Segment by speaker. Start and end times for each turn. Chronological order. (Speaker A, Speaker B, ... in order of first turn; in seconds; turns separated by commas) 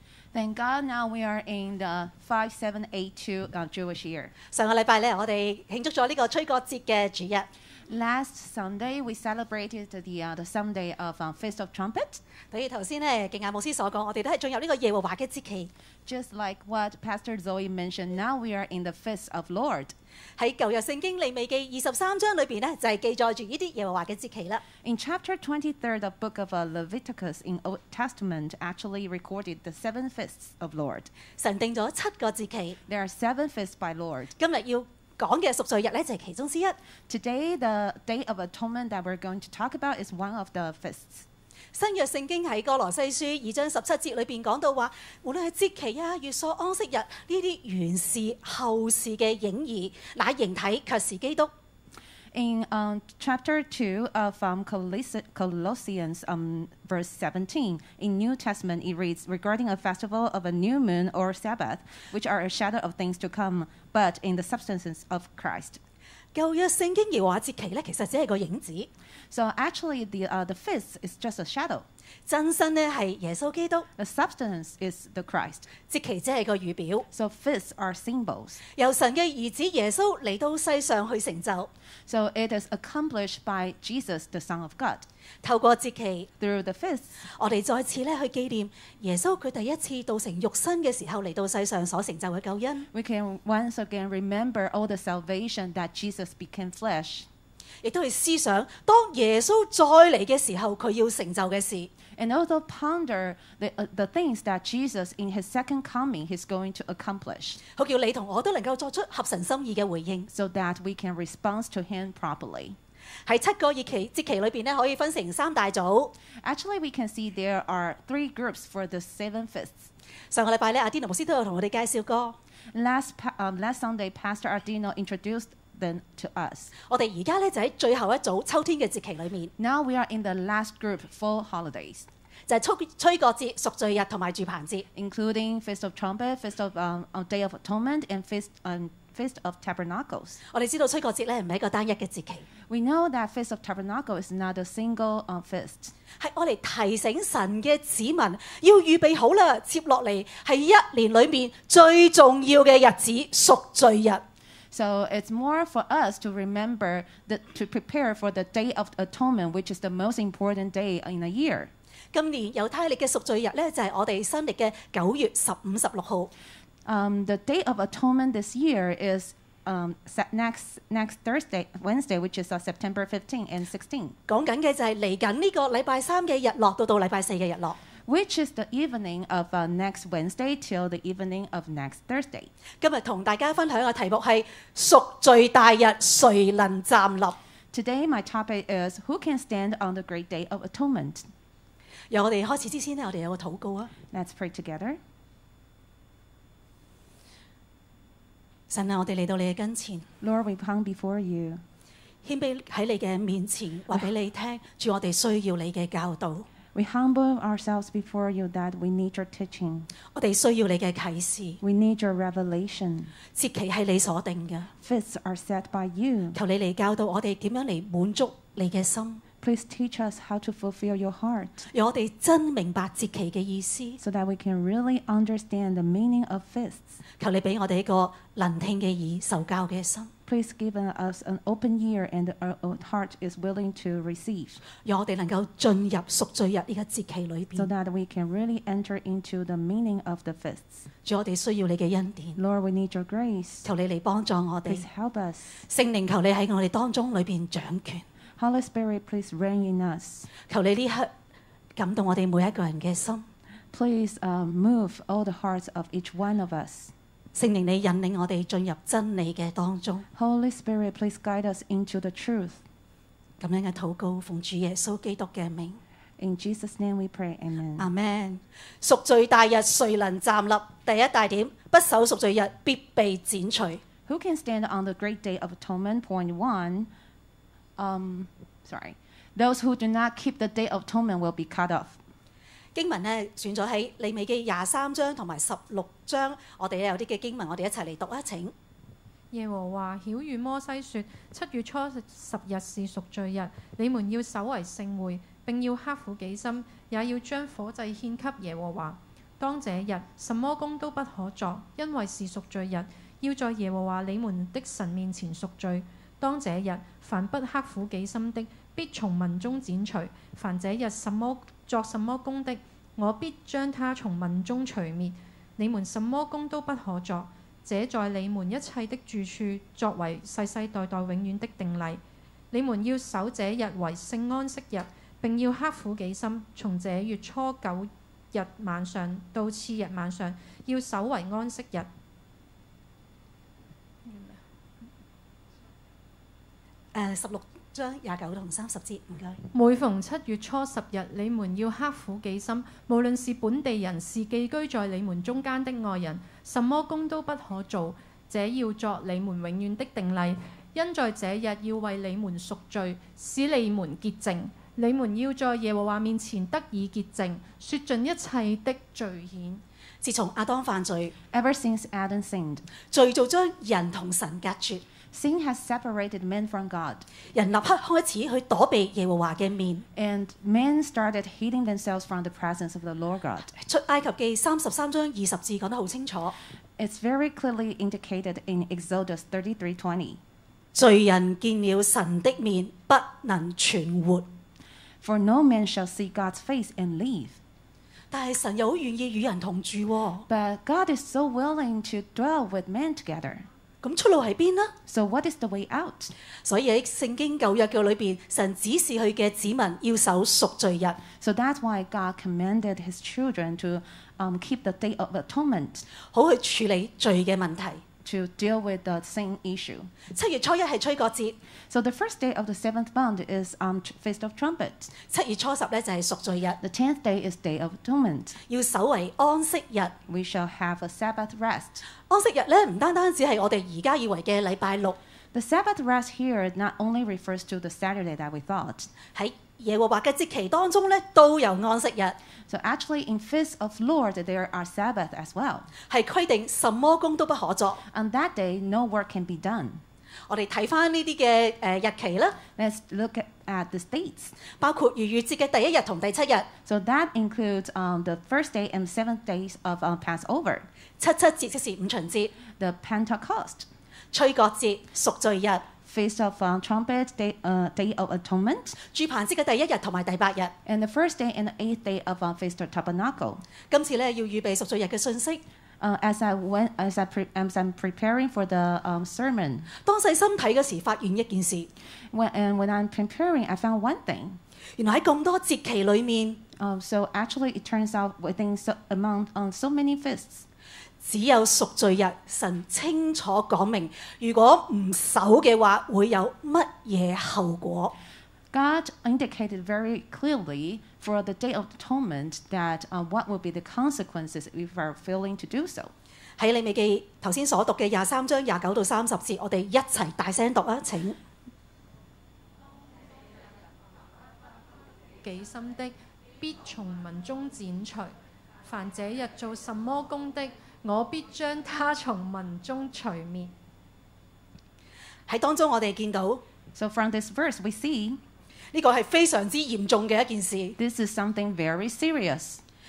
Speaker A: 0.3-4.3, Speaker B: 4.5-7.5, Speaker A: 7.9-12.2, Speaker B: 12.5-15.7, Speaker A: 16.1-19.9, Speaker B: 20.4-24.6, Speaker A: 24.8-31.1, Speaker B: 31.4-32.8, Speaker A: 32.9-34.3, Speaker B: 34.4-36.8, Speaker A: 37.1-41.2, Speaker B: 41.7-51.5, Speaker A: 52.3-65.8, Speaker B: 66.3-68.9, Speaker A: 69.3-71.9, Speaker B: 72.2-73.9, Speaker A: 74.0-75.7, Speaker B: 75.8-77.0, Speaker A: 77.1-78.6, Speaker B: 78.8-81.7, Speaker A: 82.1-85.1, Speaker B: 85.4-86.3, Speaker A: 86.4-87.2, Speaker B: 87.4-92.8, Speaker A: 92.9-97.3, Speaker B: 97.8-101.9, Speaker A: 102.2-107.6, Speaker B: 107.8-110.3, Speaker A: 110.3-112.8, Speaker B: 113.3-116.1, Speaker A: 116.4-119.9, Speaker B: 120.3-122.4, Speaker A: 122.7-126.7, Speaker B: 126.9-129.5, Speaker A: 129.6-132.1, Speaker B: 132.5-134.8, Speaker A: 134.9-140.4, Speaker B: 140.5-142.4, Speaker A: 142.7-145.9, Speaker B: 146.2-154.2, Speaker A: 154.7-161.7, Speaker B: 162.1-166.3, Speaker A: 166.8-174.2, Speaker B: 174.3-177.8, Speaker A: 178.1-182.5, Speaker B: 182.8-187.4, Speaker A: 187.7-191.3, Speaker B: 192.1-193.9, Speaker A: 194.1-195.0, Speaker B: 198.7-200.1, Speaker A: 200.2-201.6, Speaker B: 202.2-206.5, Speaker A: 206.7-209.9, Speaker B: 210.1-211.6, Speaker A: 211.6-213.1, Speaker B: 213.3-214.7, Speaker A: 214.8-216.4, Speaker B: 216.3-219.2, Speaker A: 219.4-221.7, Speaker B: 221.7-224.0, Speaker A: 224.0-227.0, Speaker B: 227.2-230.1, Speaker A: 230.2-234.6, Speaker B: 234.8-237.7, Speaker A: 237.6-240.8, Speaker B: 241.0-242.4, Speaker A: 242.3-243.7, Speaker B: 243.6-244.8, Speaker A: 244.7-245.6, Speaker B: 245.7-248.0, Speaker A: 248.4-250.3, Speaker B: 250.5-251.1, Speaker B: 251.8-253.2, Speaker A: 253.7-256.9, Speaker B: 257.3-260.0, Speaker A: 260.1-262.6, Speaker B: 263.4-265.8, Speaker A: 266.2-267.9, Speaker B: 267.8-273.8, Speaker A: 274.1-276.9, Speaker A: 277.8-282.0, Speaker B: 282.7-288.5, Speaker C: 289.3-331.9, Speaker C: 334.0-334.4, Speaker B: 336.9-339.4, Speaker C: 339.5-359.6, Speaker B: 360.0-361.1, Speaker A: 361.3-362.6, Speaker B: 362.9-364.8, Speaker A: 365.1-367.1, Speaker B: 367.3-369.9, Speaker A: 369.9-373.5, Speaker B: 373.5-376.4, Speaker A: 376.8-380.2, Speaker B: 380.7-384.2, Speaker A: 385.0-387.4, Speaker B: 388.1-390.2, Speaker A: 390.3-393.5, Speaker B: 393.8-394.7, Speaker A: 394.9-396.1, Speaker B: 396.4-401.0, Speaker A: 401.1-405.9, Speaker B: 406.1-407.8, Speaker A: 408.0-409.9, Speaker B: 410.1-411.4, Speaker A: 411.7-414.9, Speaker B: 415.1-416.6, Speaker A: 416.6-418.4, Speaker B: 418.5-419.9, Speaker A: 420.1-421.8, Speaker B: 422.1-425.0, Speaker A: 425.3-428.9, Speaker B: 429.1-432.2, Speaker A: 432.5-435.7, Speaker B: 435.9-437.8, Speaker A: 437.9-439.8, Speaker B: 440.3-442.4, Speaker A: 442.6-444.4, Speaker B: 444.6-446.5, Speaker A: 446.6-450.7, Speaker B: 451.0-452.3, Speaker A: 452.6-453.7, Speaker B: 454.1-455.6, Speaker A: 455.8-458.8, Speaker B: 458.9-460.5, Speaker A: 460.6-463.4, Speaker B: 463.7-465.4, Speaker A: 465.8-469.7, Speaker B: 469.8-471.7, Speaker A: 472.1-474.4, Speaker B: 474.8-476.4, Speaker A: 476.6-480.4, Speaker B: 481.0-487.9, Speaker A: 488.5-495.9, Speaker B: 496.4-501.2, Speaker C: 505.2-508.1, Speaker C: 508.6-513.5, Speaker B: 515.3-516.4, Speaker A: 516.7-518.2, Speaker B: 518.7-520.8, Speaker A: 520.8-522.6